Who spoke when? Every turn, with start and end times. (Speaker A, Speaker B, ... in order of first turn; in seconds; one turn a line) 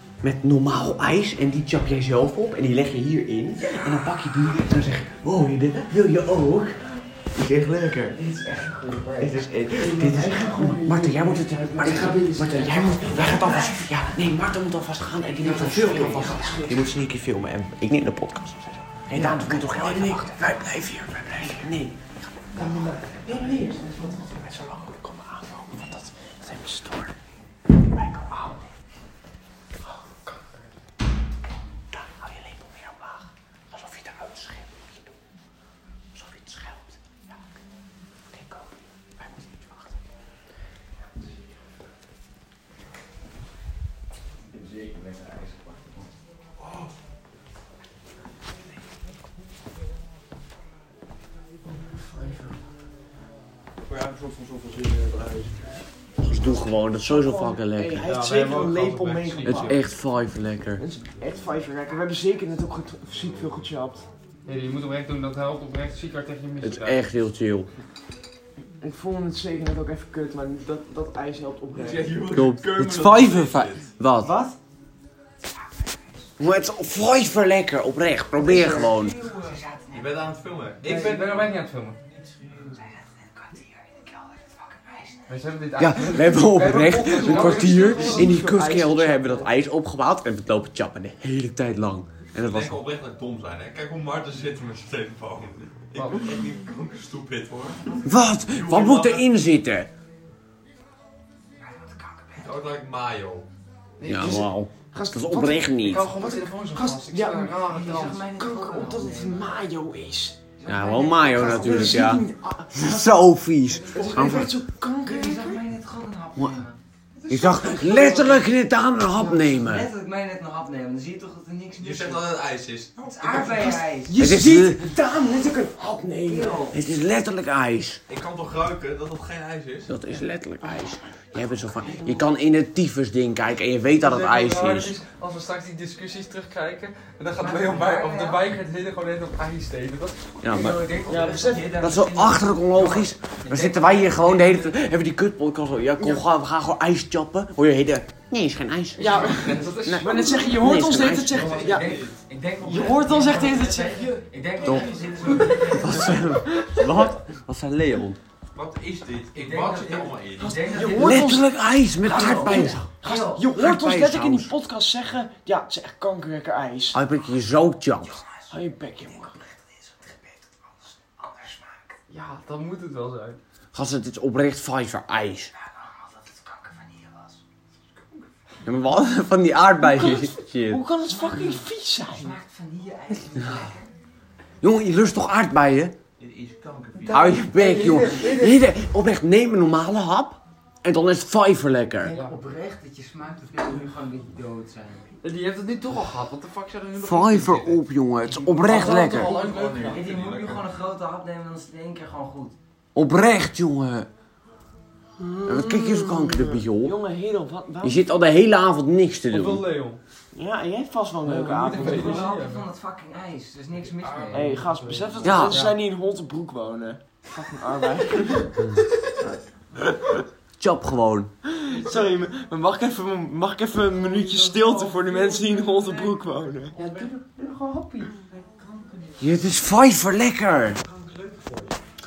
Speaker A: 0.2-8.2
Speaker B: 8.1-9.2
Speaker C: 8.8-9.2
Speaker A: 9.2-27.1
Speaker C: 9.7-13.8
Speaker C: 15.5-16.8
Speaker C: 19.1-21.6
Speaker C: 22.5-24.7
Speaker A: 27.9-28.6
Speaker A: 31.9-35.1
Speaker A: 36.1-37.4
Speaker A: 38.3-40.0
Speaker B: 44.5-46.1
Speaker D: 46.6-46.9
Speaker C: 52.0-52.5
Speaker D: 53.8-55.7
Speaker A: 56.2-58.1
Speaker C: 57.0-59.8
Speaker E: 58.0-59.8
Speaker A: 59.4-60.8
Speaker C: 60.8-64.1
Speaker E: 64.5-67.0
Speaker A: 66.6-67.7
Speaker C: 68.8-72.3
Speaker D: 71.7-73.9
Speaker A: 72.3-74.3
Speaker A: 76.4-79.3
Speaker B: 78.5-80.1
Speaker D: 79.9-81.5
Speaker E: 80.8-82.0
Speaker D: 82.4-82.8
Speaker B: 83.9-84.2
Speaker B: 84.8-85.2
Speaker E: 85.3-88.5
Speaker A: 85.8-92.8
Speaker C: 87.3-89.5
Speaker D: 92.4-99.2
Speaker E: 95.9-96.3
Speaker A: 98.0-99.9
Speaker B: 102.1-102.5
Speaker D: 102.3-103.5
Speaker A: 104.0-106.1
Speaker C: 104.0-105.8
Speaker E: 105.8-108.3
Speaker C: 106.7-110.4
Speaker B: 107.6-109.5
Speaker B: 110.6-112.0
Speaker A: 110.7-114.5
Speaker C: 111.3-113.3
Speaker B: 113.9-114.3
Speaker C: 113.9-115.6
Speaker B: 115.0-116.8
Speaker A: 117.3-119.9
Speaker B: 117.7-118.3
Speaker C: 117.8-118.1
Speaker B: 119.1-122.3
Speaker D: 121.8-123.8
Speaker B: 123.0-124.2
Speaker C: 123.9-126.7
Speaker A: 124.2-124.9
Speaker B: 126.2-126.8
Speaker A: 126.7-128.0
Speaker D: 128.1-129.9
Speaker A: 129.9-134.9
Speaker E: 134.0-141.0
Speaker B: 137.4-138.4
Speaker A: 140.4-140.9
Speaker B: 140.5-144.7
Speaker C: 141.0-141.8
Speaker A: 141.7-151.5
Speaker C: 149.0-151.9
Speaker E: 149.0-150.8
Speaker D: 151.2-152.2
Speaker B: 151.4-156.4
Speaker C: 152.6-156.8
Speaker A: 154.6-158.2
Speaker D: 154.9-155.3
Speaker D: 158.5-160.8
Speaker B: 159.3-161.4
Speaker C: 160.5-167.0
Speaker A: 160.9-164.5
Speaker B: 162.0-163.4
Speaker A: 166.9-168.2
Speaker C: 168.5-169.3
Speaker E: 172.1-173.4
Speaker A: 173.7-175.5
Speaker B: 176.3-177.3
Speaker D: 177.9-178.3
Speaker A: 178.6-180.8
Speaker C: 179.8-182.4
Speaker B: 181.3-183.9
Speaker A: 184.6-185.9
Speaker D: 186.2-187.4
Speaker A: 187.1-192.2
Speaker E: 187.2-188.7
Speaker B: 192.0-195.1
Speaker E: 192.1-192.4
Speaker E: 195.2-197.8
Speaker A: 197.0-199.3
Speaker E: 198.3-200.0
Speaker D: 198.6-200.7
Speaker B: 198.7-202.6
Speaker A: 202.9-204.1
Speaker C: 205.2-208.1
Speaker A: 205.4-207.0
Speaker A: 207.8-209.7
Speaker E: 209.3-210.0
Speaker C: 210.3-212.3
Speaker E: 211.2-212.7
Speaker B: 211.7-214.7
Speaker E: 214.0-215.7
Speaker C: 214.3-218.6
Speaker A: 215.2-215.7
Speaker A: 220.6-221.3
Speaker C: 221.5-226.8
Speaker E: 224.0-226.2
Speaker E: 226.7-227.1
Speaker B: 226.8-229.2
Speaker A: 229.2-230.8
Speaker B: 230.9-231.7